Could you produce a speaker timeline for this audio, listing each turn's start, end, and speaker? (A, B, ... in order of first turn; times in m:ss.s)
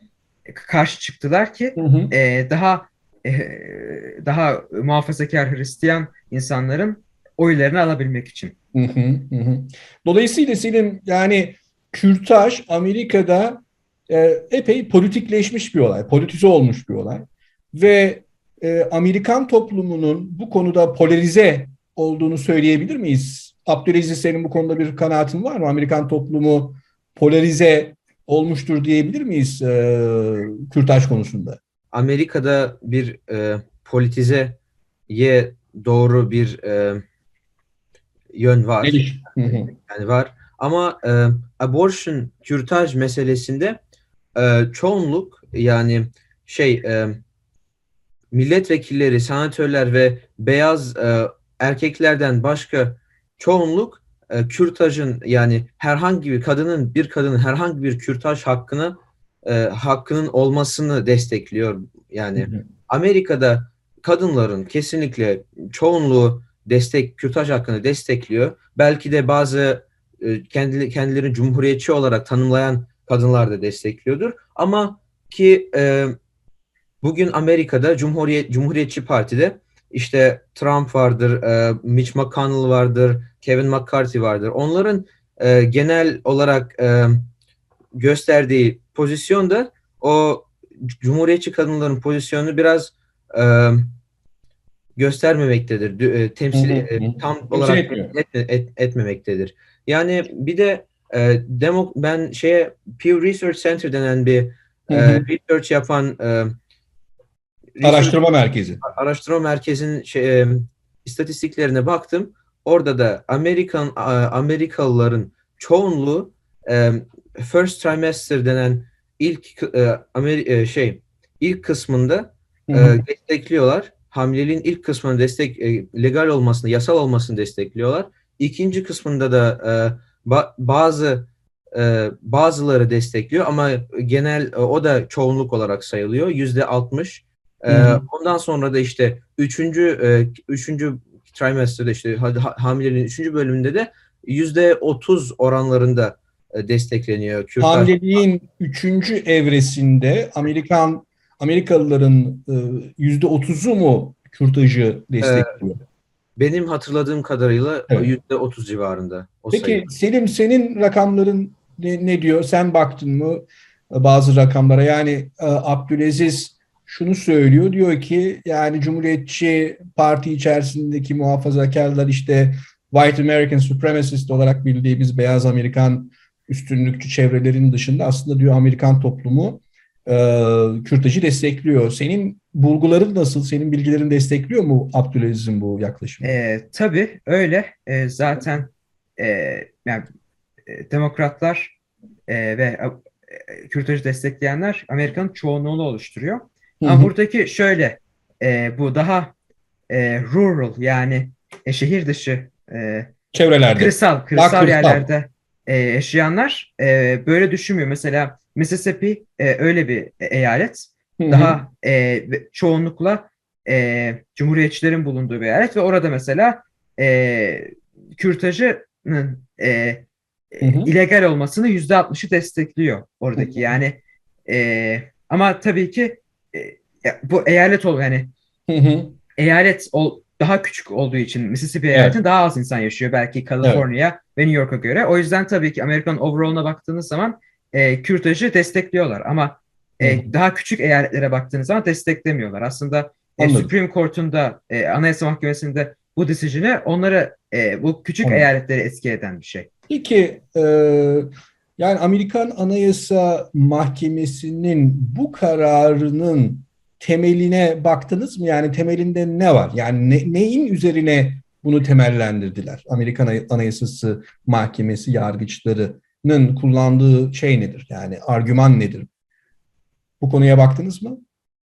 0:00.5-0:08.5 A
0:01.8-0:02.1 B
0:08.7-0:31.6 B
0:31.9-0:34.6 C
0:35.1-0:37.0 C
0:38.3-0:43.8 C
0:38.8-0:39.7 B
0:44.3-0:47.2 C
0:48.3-1:16.1 C
1:17.0-1:27.3 C
1:27.9-1:34.0 C
1:35.0-1:46.5 C
1:36.5-1:38.1 B
1:44.9-1:45.2 B
1:47.8-1:48.2 C
1:47.8-1:48.8 B
1:48.8-2:27.9 C
2:02.7-2:03.0 B
2:17.7-2:18.0 B
2:27.6-2:35.8 B
2:35.2-2:35.6 C
2:36.4-2:39.8 C
2:39.5-3:06.4 B
3:06.2-3:10.0 A
3:10.7-3:11.8 A
3:12.3-3:19.3 A
3:16.8-3:17.1 B
3:19.9-3:23.1 A
3:23.3-3:25.0 B
3:23.8-3:48.3 A
3:31.2-3:31.6 B
3:40.6-3:40.9 B
3:43.4-3:43.7 B
3:48.7-3:49.2 B
3:49.4-4:09.7 A
3:51.9-3:52.2 B
4:00.0-4:00.3 B
4:03.4-4:03.7 B
4:09.9-4:29.1 B
4:30.2-4:31.2 B